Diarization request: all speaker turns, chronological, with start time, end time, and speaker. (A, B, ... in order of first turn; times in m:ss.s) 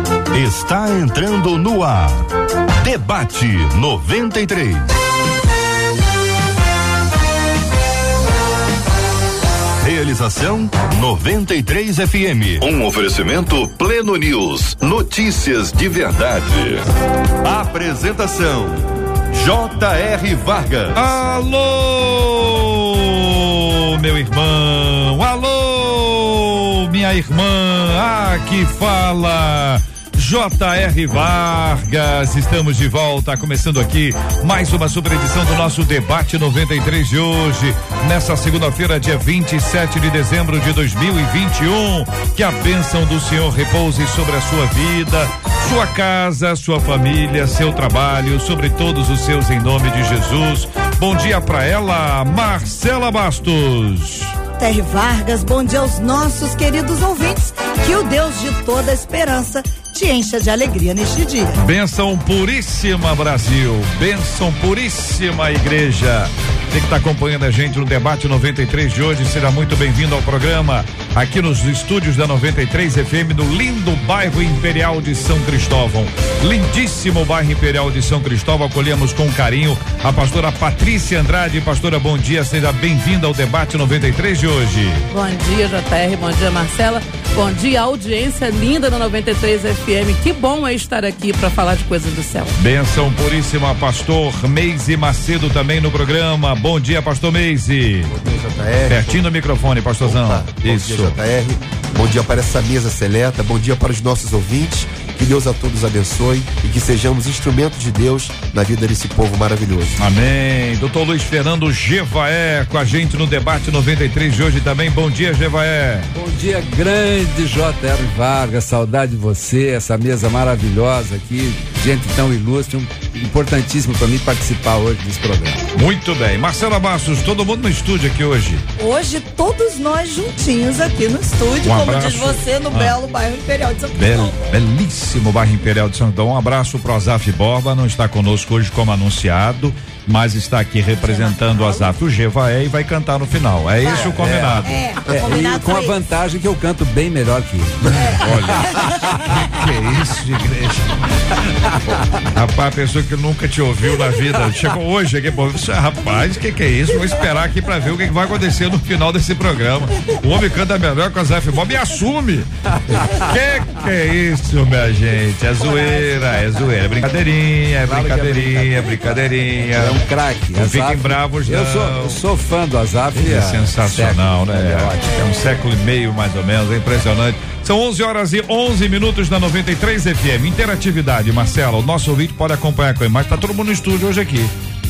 0:00.3-0:02.3 A
0:02.8-0:04.9 A
0:09.8-0:16.8 A
0:17.4-0:21.1 A
0:20.9-0:54.3 B
0:54.6-1:01.6 C
1:01.6-1:25.0 B
1:25.1-1:32.6 D
1:32.6-1:38.1 B
1:38.1-1:39.2 E
1:38.9-1:41.2 B
1:40.0-1:50.0 E
1:50.0-1:56.1 B
1:56.1-2:05.6 F
2:05.7-2:08.6 B
2:08.8-2:14.4 C
2:11.6-2:13.0 B
2:13.9-2:24.8 B
2:21.0-2:21.9 C
2:23.8-2:26.0 C
2:24.0-2:28.2 F
2:28.0-2:31.0 B
2:32.2-2:50.0 B
2:42.9-2:43.2 F
2:47.8-2:49.0 F
2:49.8-2:55.0 F
2:50.5-2:52.2 B
2:53.1-3:04.5 B